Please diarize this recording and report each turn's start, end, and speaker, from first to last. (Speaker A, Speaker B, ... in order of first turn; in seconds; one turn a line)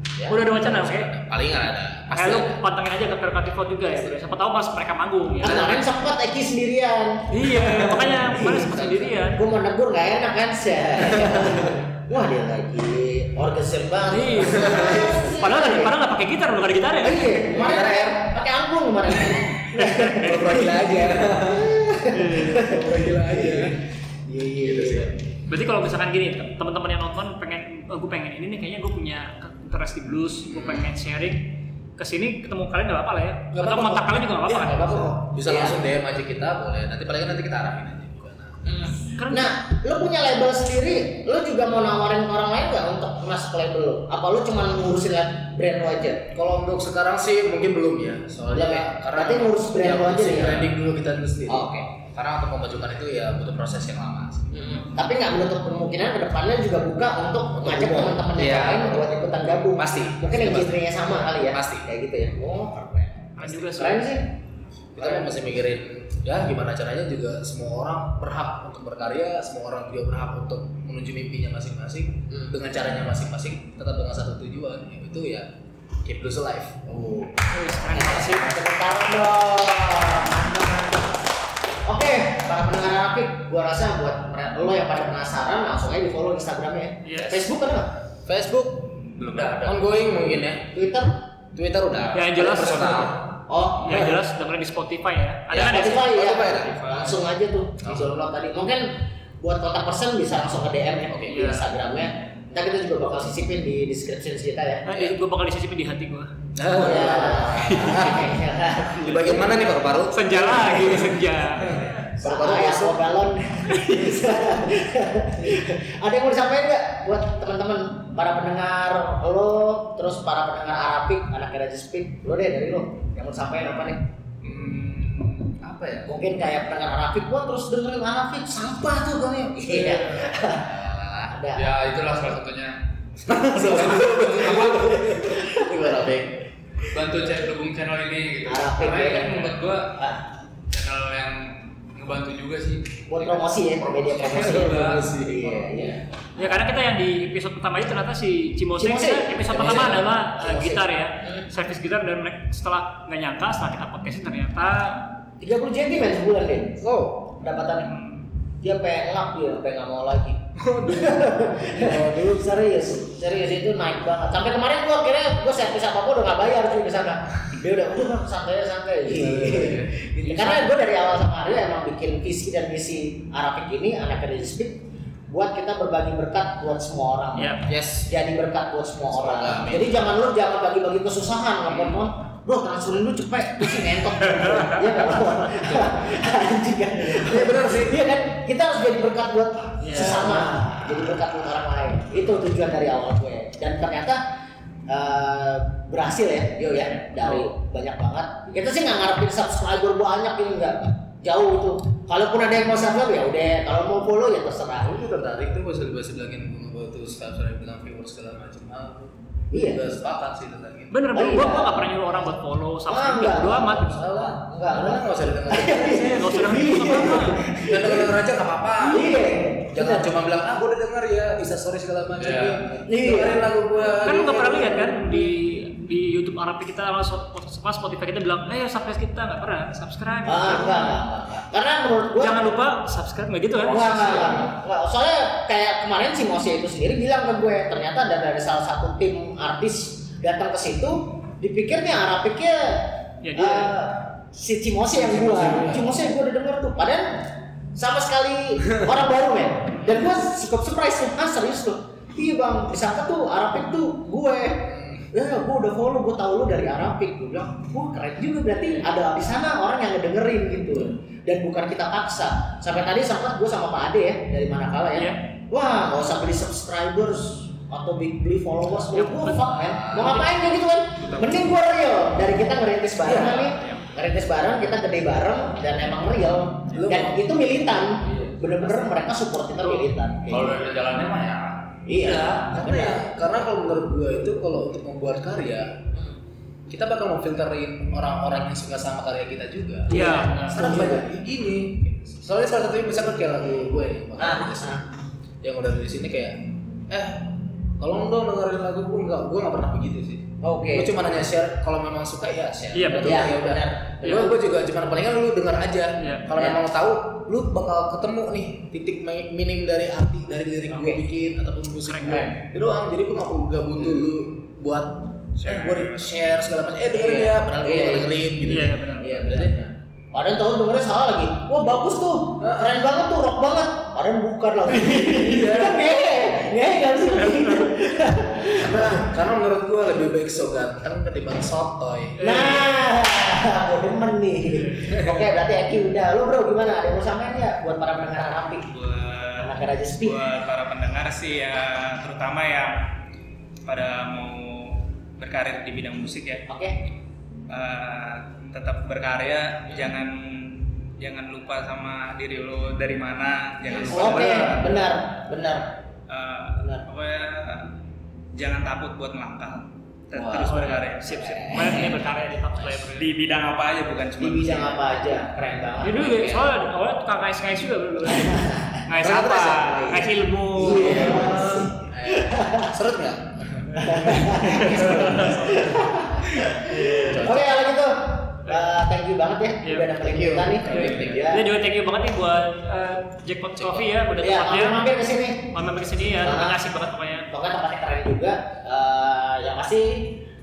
Speaker A: 0.1-2.6
Speaker B: 0.3-1.1
Speaker B: 2.1-5.8
Speaker C: 5.4-7.3
Speaker B: 7.3-9.4
Speaker A: 7.5-9.2
Speaker C: 8.2-8.7
Speaker C: 9.3-15.9
Speaker A: 11.0-11.8
Speaker B: 14.1-17.4
Speaker A: 14.5-15.2
Speaker C: 17.0-23.7
Speaker A: 17.5-18.2
Speaker B: 19.7-20.4
Speaker A: 20.1-21.9
Speaker B: 22.1-22.8
Speaker A: 22.5-23.8
Speaker C: 24.2-25.1
Speaker A: 24.6-25.2
Speaker B: 25.5-35.1
Speaker A: 30.4-30.9
Speaker A: 33.5-38.7
Speaker C: 35.4-35.8
Speaker C: 38.6-46.3
Speaker B: 39.1-39.5
Speaker A: 46.3-54.8
Speaker C: 48.5-50.7
Speaker C: 51.5-51.9
Speaker C: 54.5-64.3
Speaker A: 57.5-61.9
Speaker D: 58.4-58.8
Speaker B: 63.4-64.1
Speaker A: 63.4-64.0
Speaker A: 64.9-75.5
Speaker C: 65.0-65.3
Speaker A: 76.0-77.6
Speaker B: 77.5-78.5
Speaker C: 77.9-81.2
Speaker C: 81.8-88.0
Speaker B: 87.0-87.5
Speaker A: 88.2-90.7
Speaker D: 89.1-89.9
Speaker C: 90.7-91.2
Speaker A: 91.5-93.3
Speaker B: 92.1-93.2
Speaker C: 93.5-94.1
Speaker B: 93.8-96.1
Speaker A: 93.8-94.2
Speaker A: 95.5-97.2
Speaker C: 95.5-104.8
Speaker D: 96.6-97.1
Speaker A: 97.8-98.2
Speaker A: 101.1-101.5
Speaker B: 101.2-101.7
Speaker B: 104.8-108.2
Speaker A: 104.8-105.2
Speaker A: 106.5-113.2
Speaker C: 106.7-109.6
Speaker B: 110.1-112.1
Speaker C: 112.2-124.1
Speaker B: 113.7-114.0
Speaker D: 124.4-126.2
Speaker C: 126.0-130.8
Speaker B: 129.7-130.3
Speaker A: 130.4-131.4
Speaker C: 131.3-131.7
Speaker D: 131.5-132.8
Speaker A: 133.2-136.4
Speaker D: 133.5-134.9
Speaker C: 134.3-136.0
Speaker D: 136.9-140.0
Speaker C: 138.4-140.3
Speaker D: 140.6-145.1
Speaker C: 143.1-146.1
Speaker A: 144.2-145.7
Speaker B: 146.3-155.1
Speaker C: 148.8-151.5
Speaker A: 149.5-150.0
Speaker C: 155.4-157.9
Speaker A: 156.8-157.4
Speaker C: 158.6-194.2
Speaker A: 160.6-162.5
Speaker A: 169.0-170.0
Speaker B: 170.3-170.7
Speaker B: 177.3-177.7
Speaker A: 177.7-178.1
Speaker A: 179.1-180.2
Speaker B: 184.4-184.8
Speaker A: 185.6-186.2
Speaker A: 187.0-188.0
Speaker B: 189.8-190.5
Speaker A: 190.0-190.3
Speaker C: 194.9-205.2
Speaker B: 197.2-197.5
Speaker A: 204.8-211.0
Speaker C: 209.5-209.8
Speaker B: 210.9-214.2
Speaker C: 211.1-211.9
Speaker C: 212.9-218.2
Speaker A: 213.6-224.9
Speaker B: 215.8-217.4
Speaker C: 218.8-220.1
Speaker D: 222.2-222.7
Speaker C: 222.8-223.5
Speaker B: 224.0-231.0
Speaker C: 224.1-225.1
Speaker C: 230.2-232.5
Speaker B: 232.2-234.3
Speaker C: 233.6-280.6
Speaker D: 233.8-234.4
Speaker B: 243.2-243.7
Speaker A: 244.9-245.9
Speaker B: 245.4-245.7
Speaker B: 249.7-250.1
Speaker A: 254.7-255.1
Speaker B: 268.9-270.3
Speaker A: 269.5-270.3
Speaker A: 273.0-273.5
Speaker A: 276.7-277.2
Speaker D: 278.0-278.6
Speaker D: 279.7-282.4
Speaker C: 281.9-283.0
Speaker A: 282.5-285.9
Speaker C: 285.9-286.2
Speaker A: 286.7-294.9
Speaker B: 289.9-290.9
Speaker C: 289.9-291.1
Speaker C: 294.2-294.8
Speaker A: 295.4-319.7
Speaker C: 300.4-300.9
Speaker B: 302.7-303.3
Speaker C: 303.0-304.4
Speaker B: 304.0-304.3
Speaker B: 306.0-306.2
Speaker C: 306.3-306.6
Speaker C: 310.7-311.0
Speaker B: 311.8-312.3
Speaker C: 312.1-312.3
Speaker C: 316.9-318.1
Speaker B: 318.4-319.3
Speaker C: 319.0-319.6
Speaker C: 320.1-329.1
Speaker A: 322.4-322.8
Speaker A: 324.7-326.0
Speaker B: 327.1-327.7
Speaker A: 328.4-332.6
Speaker B: 332.2-332.7
Speaker C: 332.2-338.7
Speaker A: 334.9-335.3
Speaker E: 338.7-342.9
Speaker C: 339.4-340.2
Speaker E: 343.6-346.5
Speaker C: 346.5-346.8
Speaker E: 347.5-354.9
Speaker C: 353.7-355.7
Speaker E: 356.1-357.7
Speaker E: 358.3-361.6
Speaker A: 360.1-360.5
Speaker C: 360.2-360.6
Speaker B: 360.5-363.1
Speaker C: 361.1-361.9
Speaker E: 362.8-364.9
Speaker C: 364.2-366.5
Speaker B: 365.8-371.4
Speaker C: 368.2-368.8
Speaker A: 369.0-369.8
Speaker C: 369.5-372.7
Speaker A: 370.6-375.3
Speaker C: 373.8-381.4
Speaker B: 374.3-375.7
Speaker B: 376.7-377.2
Speaker A: 376.9-377.5
Speaker B: 379.6-379.9
Speaker A: 380.0-381.3
Speaker B: 380.6-384.8
Speaker A: 383.6-383.9
Speaker C: 384.2-385.5
Speaker B: 385.5-387.3
Speaker C: 386.2-386.6
Speaker C: 387.3-390.2